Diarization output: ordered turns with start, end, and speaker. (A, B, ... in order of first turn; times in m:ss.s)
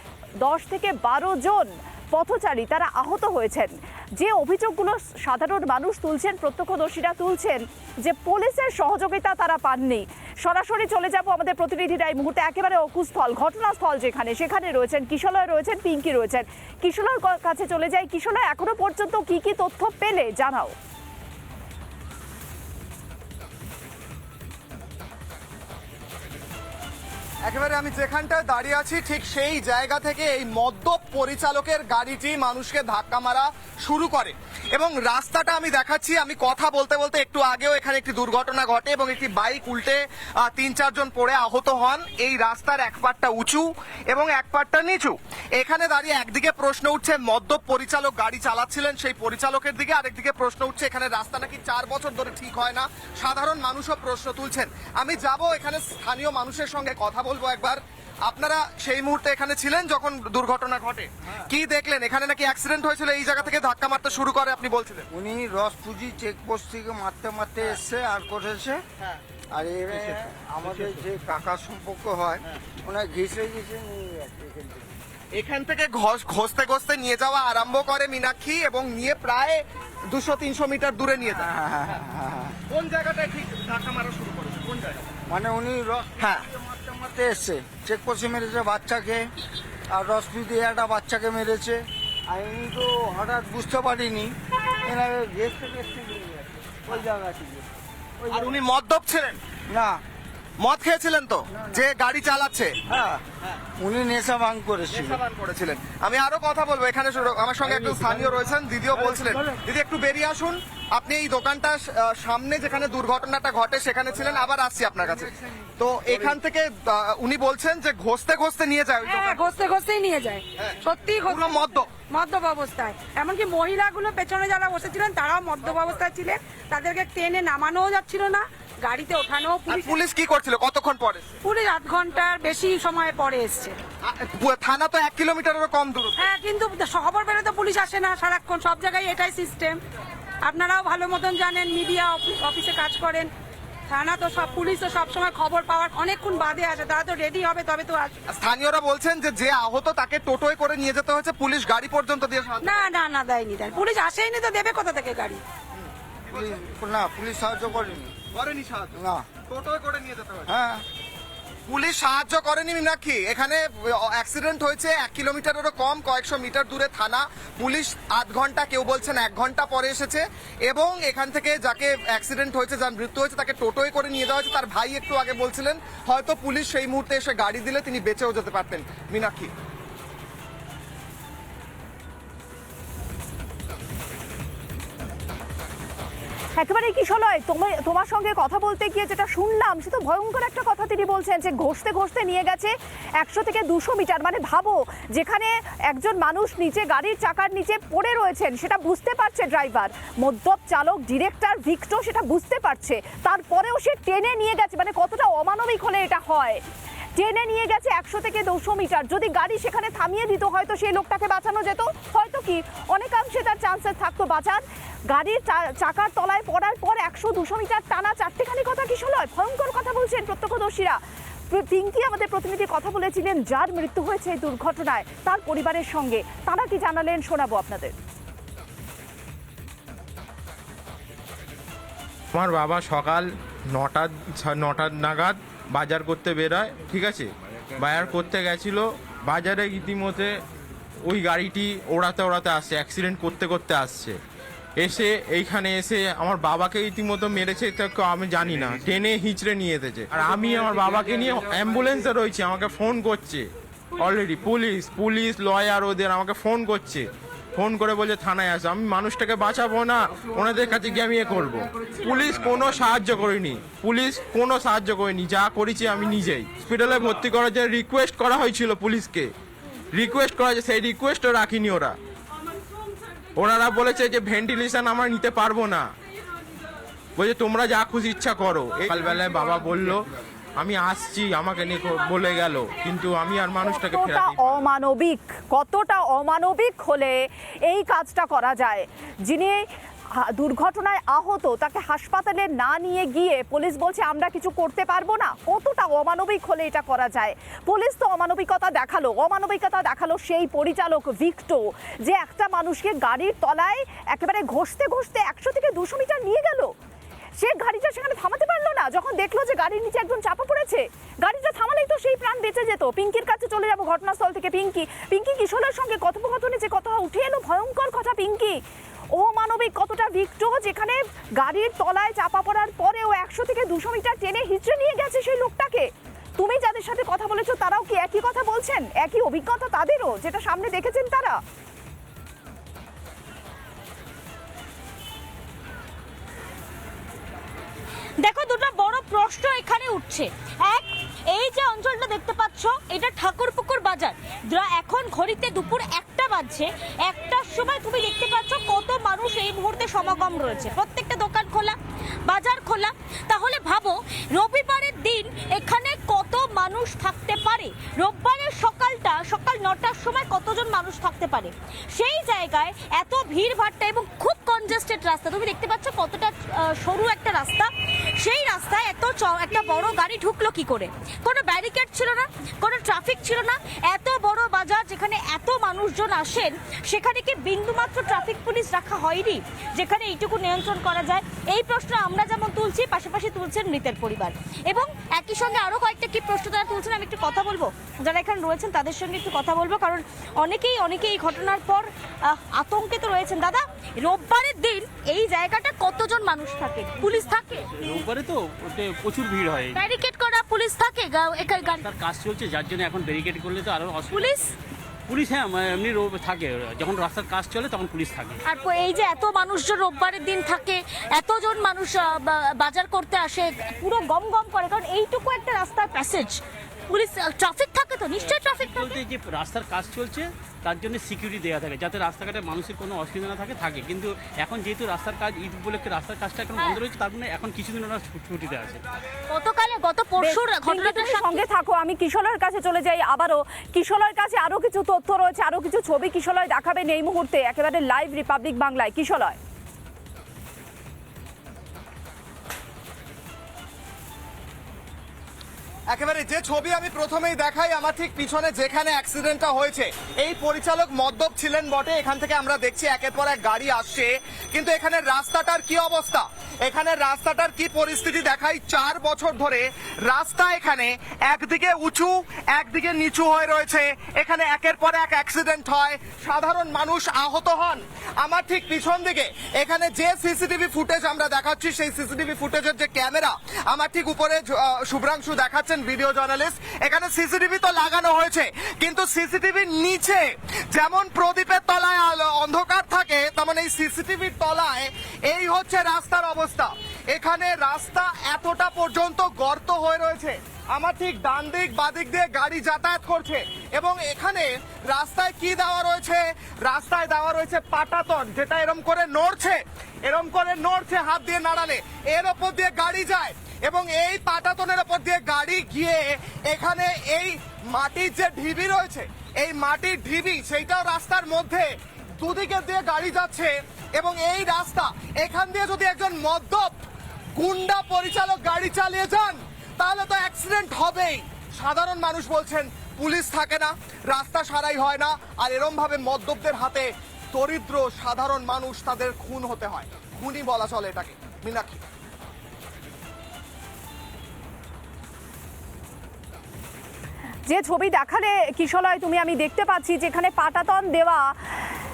0:00.4-0:20.7 A
0:27.4-1:05.1 B
1:05.1-1:08.8 C
1:09.5-1:14.9 C
1:15.3-1:21.5 B
1:21.4-1:22.6 C
1:22.7-1:25.1 B
1:25.3-1:29.3 C
1:26.2-1:26.4 B
1:29.9-1:34.3 C
1:34.8-1:37.6 C
1:38.3-1:39.4 B
1:39.7-1:40.0 C
1:40.6-1:42.7 B
1:42.9-1:43.2 C
1:43.8-1:45.2 C
1:44.9-1:59.4 B
1:59.0-2:10.0 D
2:01.3-2:01.9 B
2:09.7-2:11.4 B
2:11.4-2:13.8 D
2:14.0-2:16.2 B
2:16.2-2:19.8 D
2:20.4-2:23.3 D
2:23.9-2:28.1 D
2:28.3-2:32.9 B
2:32.6-2:35.4 D
2:36.3-2:36.6 B
2:36.3-2:38.2 C
2:38.3-2:40.5 B
2:38.9-2:39.3 C
2:40.5-2:40.8 C
2:41.7-2:59.5 B
3:06.6-3:26.6 A
3:27.2-3:47.9 A
3:52.3-3:57.3 E
3:57.8-4:00.3 E
4:01.1-4:04.2 E
4:04.8-4:13.4 E
4:14.0-4:29.3 E
4:29.9-4:32.0 E
4:33.4-4:35.9 E
4:37.2-4:40.0 E
4:40.6-4:44.6 E
4:43.6-4:49.6 A
4:50.2-5:06.7 A
5:07.4-5:18.6 A
5:19.1-5:31.4 A
5:38.2-6:37.7 F
6:37.8-6:39.8 G
6:39.8-6:41.8 F
6:41.7-6:44.5 G
6:44.1-6:44.4 F
6:45.1-6:48.4 G
6:48.4-6:58.9 F
6:58.2-7:08.8 G
7:09.3-7:11.4 F
7:10.2-7:19.4 A
7:25.9-8:31.6 B
8:32.2-8:36.8 B
8:37.4-8:51.8 B
8:57.5-9:01.3 A